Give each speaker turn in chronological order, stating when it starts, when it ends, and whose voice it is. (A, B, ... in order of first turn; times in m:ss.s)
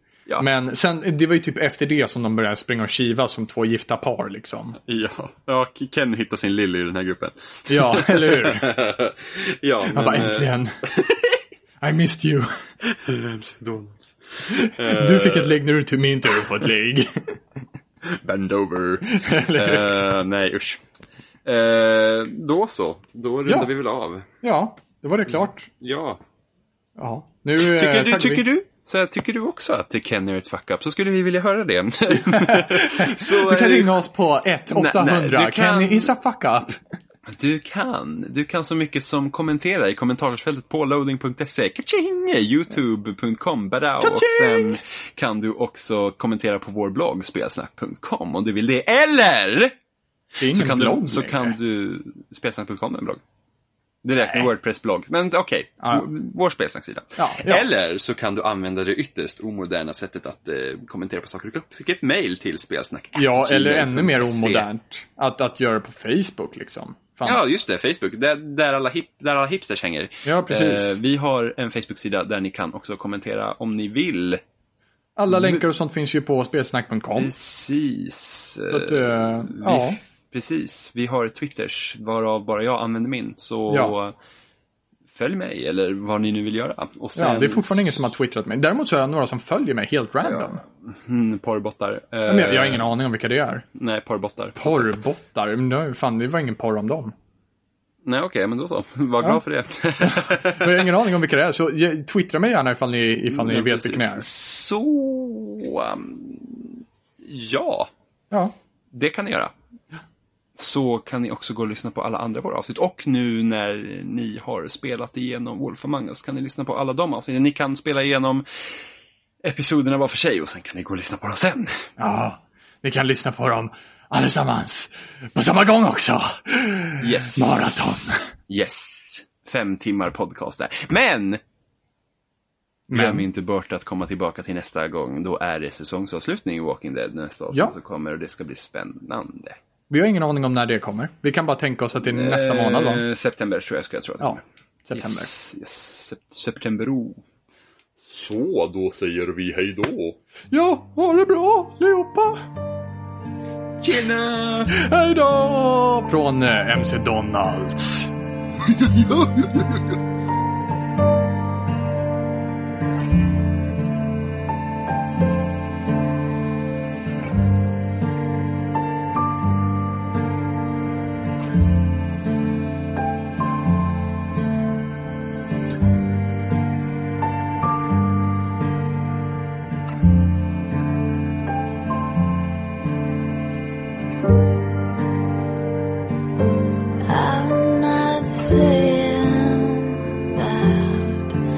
0:00.4-0:04.8 A
0:04.8-0:11.4 B
0:07.7-0:08.7 A
0:09.9-0:10.8 A
0:11.8-0:12.5 A
0:12.8-0:15.6 B
0:14.5-0:17.4 A
0:18.0-0:20.8 B
0:19.1-0:20.0 A
0:21.4-0:24.3 B
0:24.4-0:25.7 A
0:25.7-0:26.2 B
0:27.0-0:28.4 A
0:27.6-0:34.0 B
0:32.1-0:36.8 A
0:34.7-0:36.1 B
0:37.3-0:49.8 B
0:44.0-0:44.8 A
0:50.4-0:51.6 A
0:50.5-0:53.2 B
0:54.0-1:04.7 B
0:55.8-0:56.1 A
0:57.2-0:57.7 A
1:03.2-1:07.4 A
1:07.2-1:14.4 B
1:10.2-1:11.0 A
1:15.2-1:17.3 A
1:15.3-1:15.6 B
1:17.2-1:24.1 B
1:18.7-1:20.0 A
1:23.7-1:24.0 A
1:25.1-1:28.1 B
1:27.2-1:30.6 A
1:30.2-1:32.9 B
1:32.3-1:33.7 A
1:33.8-1:34.9 B
1:34.6-1:37.1 A
1:38.0-1:40.9 B
1:40.0-1:44.3 A
1:43.3-1:47.9 B
1:48.9-1:49.5 B
1:50.6-1:58.7 B
1:59.4-2:01.8 B
2:02.0-2:08.2 A
2:07.0-2:11.4 B
2:12.9-2:13.2 A
2:12.9-2:19.6 B
2:19.9-2:23.0 A
2:22.0-2:24.4 B
2:24.2-2:25.3 A
2:25.0-2:27.2 B
2:28.0-2:30.2 B
2:30.5-2:32.4 A
2:33.8-2:34.8 B
2:34.7-2:38.1 A
2:38.7-2:39.9 B
3:07.0-3:11.4 C